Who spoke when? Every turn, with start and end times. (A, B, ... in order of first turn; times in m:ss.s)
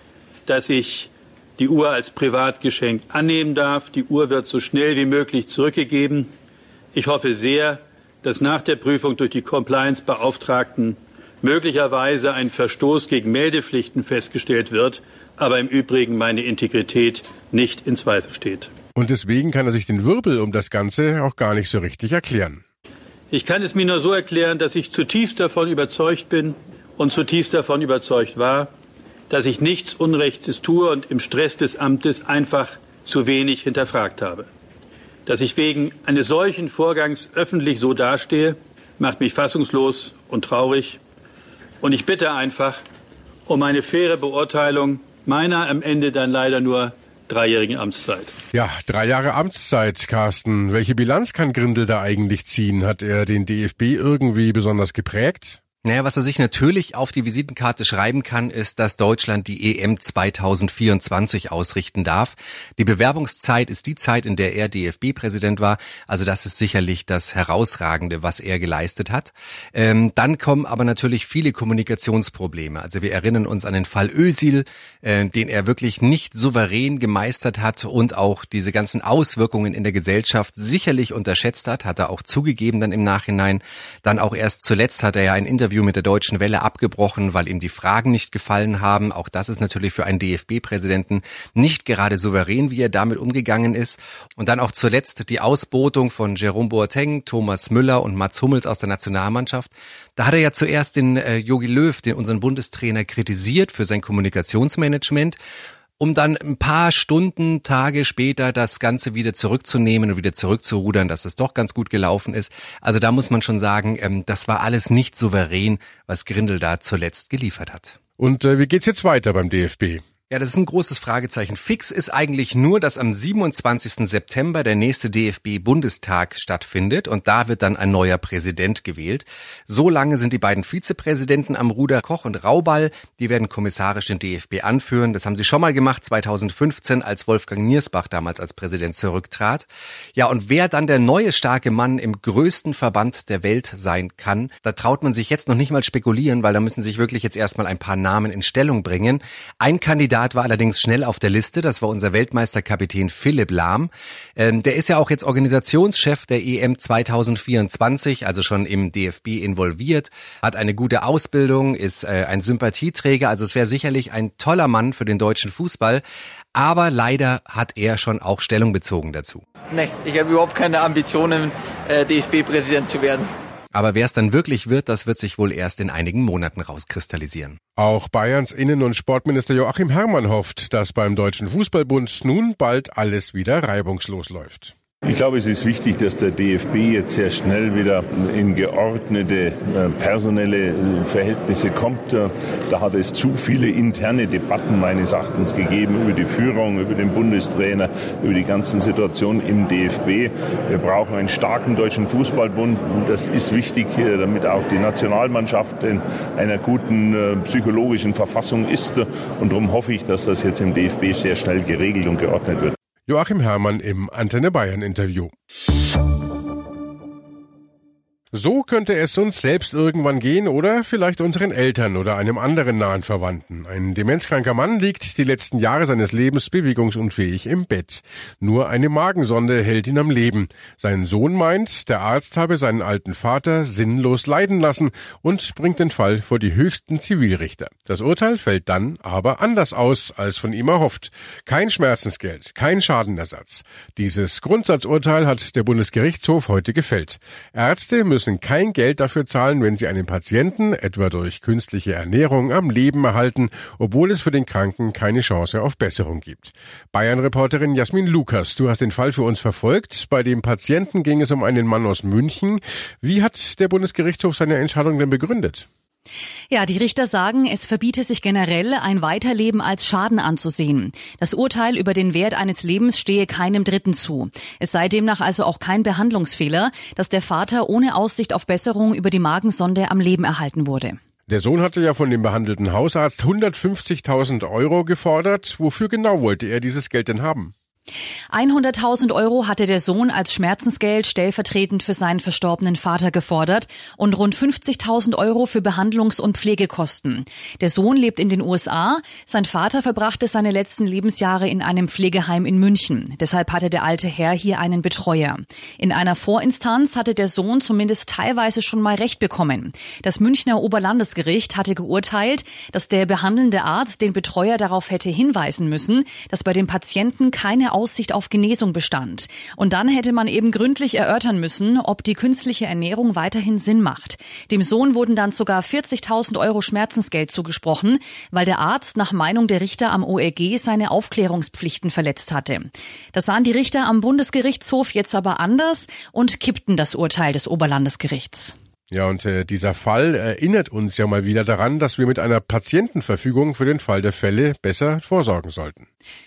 0:00.5-0:06.3 A
0:06.9-0:18.7 A
0:19.0-0:22.6 B
0:23.3-0:28.7 A
0:29.3-0:34.5 A
0:35.2-0:41.0 A
0:41.8-0:42.8 A
0:43.5-0:48.3 A
0:48.5-0:55.6 B
0:55.8-1:45.4 C
1:46.0-1:57.9 C
1:58.2-2:00.0 B
2:00.3-2:46.0 C
2:46.6-2:49.4 C
2:49.7-2:53.3 D
2:53.7-2:57.6 C
2:57.8-3:04.7 B
3:05.0-3:32.7 E
3:33.1-3:35.3 B
3:38.3-4:25.7 B
4:26.5-4:41.0 F
4:41.3-4:47.5 B
4:48.3-5:32.6 F
5:06.1-5:07.3 A
5:11.8-5:12.2 A
5:13.9-5:14.6 A
5:15.2-5:15.9 A
5:16.6-5:16.9 A
5:17.9-5:18.3 A
5:33.1-5:38.5 F
5:34.3-5:35.1 A
5:38.9-5:45.8 B